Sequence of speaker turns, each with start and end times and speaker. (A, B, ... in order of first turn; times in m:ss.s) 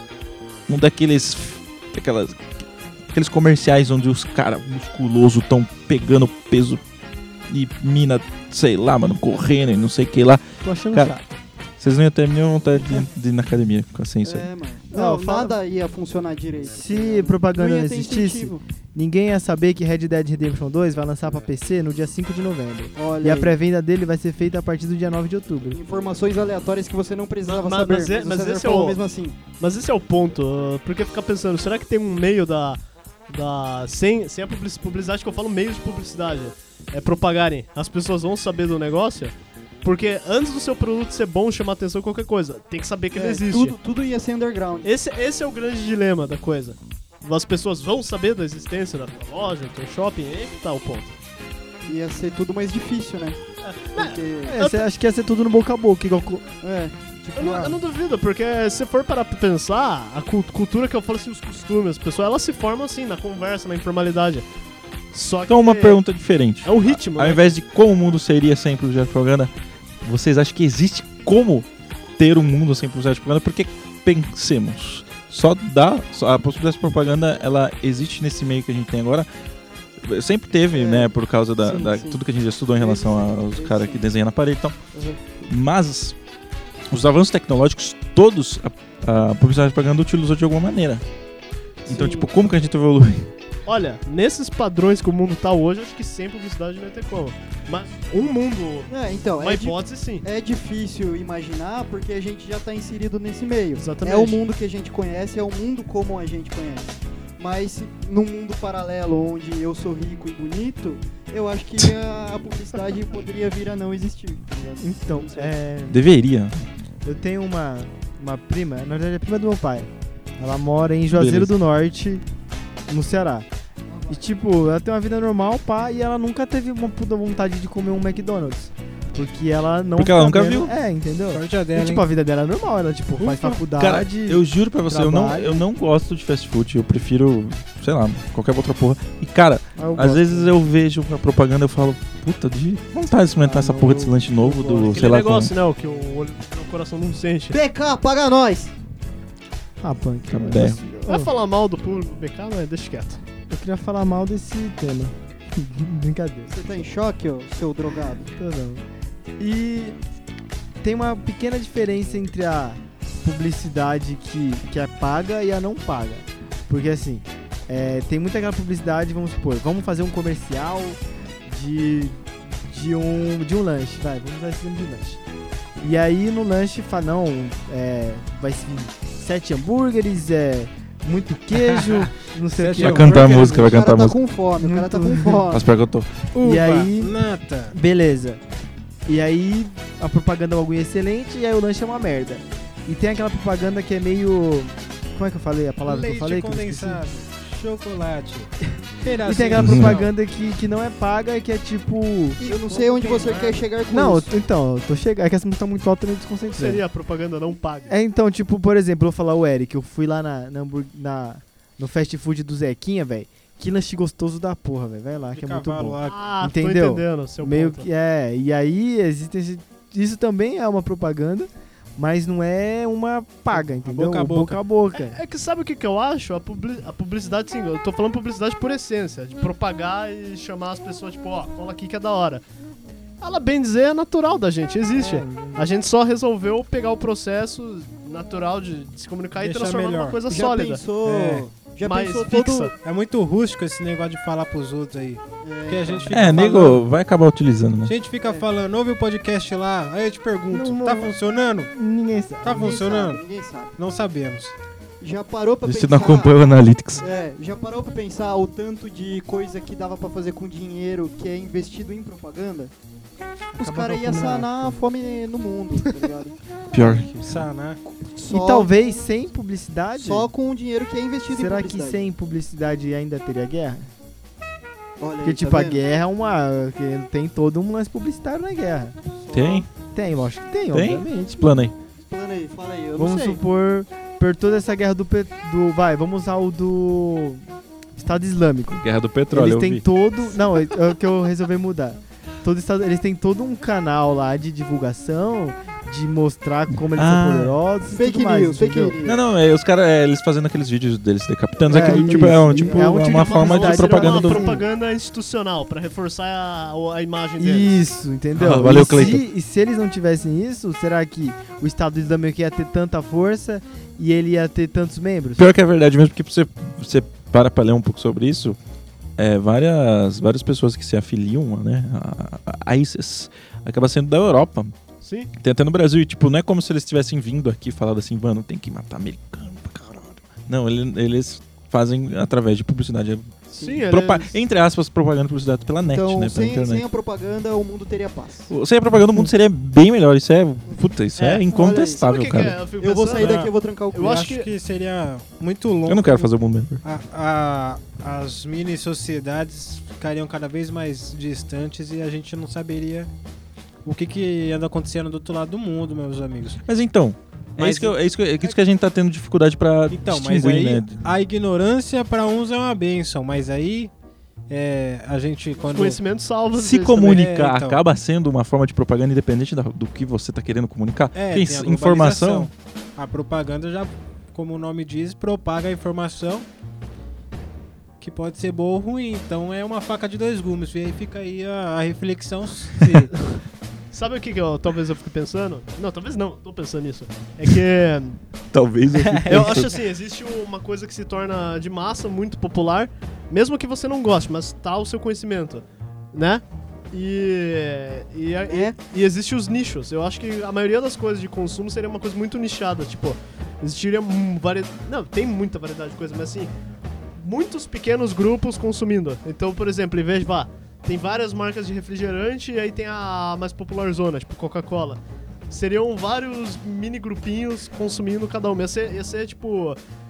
0:00.7-0:02.5 A
0:03.1-0:06.8 A
0:07.5-0:11.1 A
0:10.6-0:11.2 B
0:11.8-0:14.5 A
0:14.2-0:18.6 C
0:14.9-0:15.6 B
0:16.7-0:25.8 B
0:23.0-0:23.5 C
0:25.7-0:29.4 C
0:27.4-0:29.0 D
0:29.6-0:43.7 D
0:43.1-0:44.9 C
0:44.8-0:51.1 D
0:51.8-0:53.4 C
0:53.6-0:54.8 D
0:53.9-0:54.6 C
0:54.4-0:56.4 B
0:56.6-0:56.9 C
0:57.2-0:57.8 B
0:57.3-1:04.4 D
1:05.1-1:06.0 D
1:05.5-1:19.3 A
1:06.6-1:07.5 D
1:20.0-1:24.8 A
1:20.7-1:22.2 C
1:22.7-1:24.0 C
1:24.9-1:25.4 C
1:25.5-1:26.2 A
1:26.9-1:31.0 A
1:31.8-1:33.3 A
1:31.9-1:32.3 C
1:33.7-1:40.2 D
1:38.9-1:55.5 C
1:43.8-1:44.4 D
1:54.8-1:56.0 B
1:55.9-1:56.7 A
1:57.0-2:02.2 B
2:01.1-2:01.5 A
2:02.9-2:03.5 B
2:03.9-2:04.2 C
2:04.1-2:15.6 B
2:10.0-2:10.7 A
2:11.3-2:12.0 E
2:13.2-2:25.5 A
2:19.8-2:20.6 B
2:23.4-2:25.0 B
2:24.8-2:27.6 D
2:27.5-2:28.7 C
2:29.8-2:31.3 B
2:30.3-2:30.8 A
2:31.0-2:33.2 D
2:33.5-2:36.5 B
2:36.5-2:38.3 C
2:38.3-2:38.8 B
2:39.4-2:40.0 B
2:40.8-2:55.2 B
2:55.8-3:03.8 B
3:01.5-3:03.4 E
3:02.8-3:04.2 A
3:03.0-3:05.7 C
3:04.6-3:05.4 B
3:05.5-3:06.3 A
3:06.3-3:07.8 E
3:06.4-3:07.1 B
3:07.7-3:08.4 B
3:09.0-3:17.0 B
3:15.8-3:20.1 E
3:19.2-3:22.4 B
3:19.6-3:19.9 A
3:22.4-3:24.3 C
3:22.4-3:23.6 E
3:23.9-3:26.8 B
3:26.5-3:27.9 D
3:27.9-3:45.2 B
3:35.4-3:36.3 E
3:36.1-3:37.9 D
3:43.5-3:44.6 E
3:44.9-3:52.4 D
3:53.2-4:00.9 D
3:54.9-3:55.7 B
3:59.4-4:00.2 E
4:00.3-4:02.7 C
4:01.0-4:01.5 E
4:01.8-4:02.7 D
4:02.8-4:06.9 E
4:05.4-4:06.7 C
4:06.1-4:07.9 A
4:07.8-4:11.7 E
4:10.5-4:11.1 B
4:11.7-4:12.7 B
4:12.4-4:13.2 E
4:12.5-4:13.7 C
4:13.8-4:14.5 E
4:15.0-4:16.4 C
4:15.6-4:17.0 A
4:17.0-4:22.7 C
4:23.5-4:24.8 B
4:23.6-4:26.4 C
4:25.8-4:26.1 B
4:26.7-4:27.4 A
4:26.8-4:27.8 E
4:27.9-4:29.0 C
4:28.3-4:30.3 B
4:29.9-4:32.1 C
4:31.3-4:33.9 B
4:35.0-4:35.8 C
4:35.2-4:39.0 B
4:39.1-4:39.7 C
4:39.3-4:39.7 A
4:39.9-4:41.5 B
4:40.7-4:41.7 A
4:42.0-4:43.4 C
4:43.0-4:47.4 B
4:48.0-4:59.0 B
4:48.7-4:49.8 A
4:56.8-4:57.6 A
4:57.9-4:59.2 C
4:59.0-5:04.2 A
5:01.7-5:04.6 B
5:01.8-5:03.0 C
5:03.0-5:07.8 D
5:04.1-5:04.6 C
5:07.4-5:15.5 B
5:08.3-5:09.2 A
5:15.4-5:18.6 A
5:19.2-5:24.7 A
5:25.0-5:25.3 D
5:25.4-5:36.8 A
5:33.5-5:33.8 C
5:33.6-5:34.3 D
5:35.8-5:38.5 C
5:38.5-5:42.6 A
5:41.2-5:44.5 D
5:41.5-5:42.0 C
5:42.8-5:44.3 C
5:43.2-5:43.5 A
5:44.0-5:46.3 E
5:45.8-5:46.8 A
5:46.8-5:53.1 E
5:53.8-5:56.6 E
5:56.6-6:01.0 A
5:57.6-5:58.5 E
5:59.9-6:03.9 E
6:04.5-6:06.0 E
6:05.6-6:06.9 D
6:06.5-6:12.5 A
6:06.6-6:07.8 E
6:11.1-6:16.4 E
6:18.0-6:23.2 E
6:23.9-6:28.2 D
6:28.5-6:29.7 A
6:28.9-6:29.7 E
6:29.3-6:46.5 D
6:38.4-6:38.7 C
6:47.2-6:59.8 D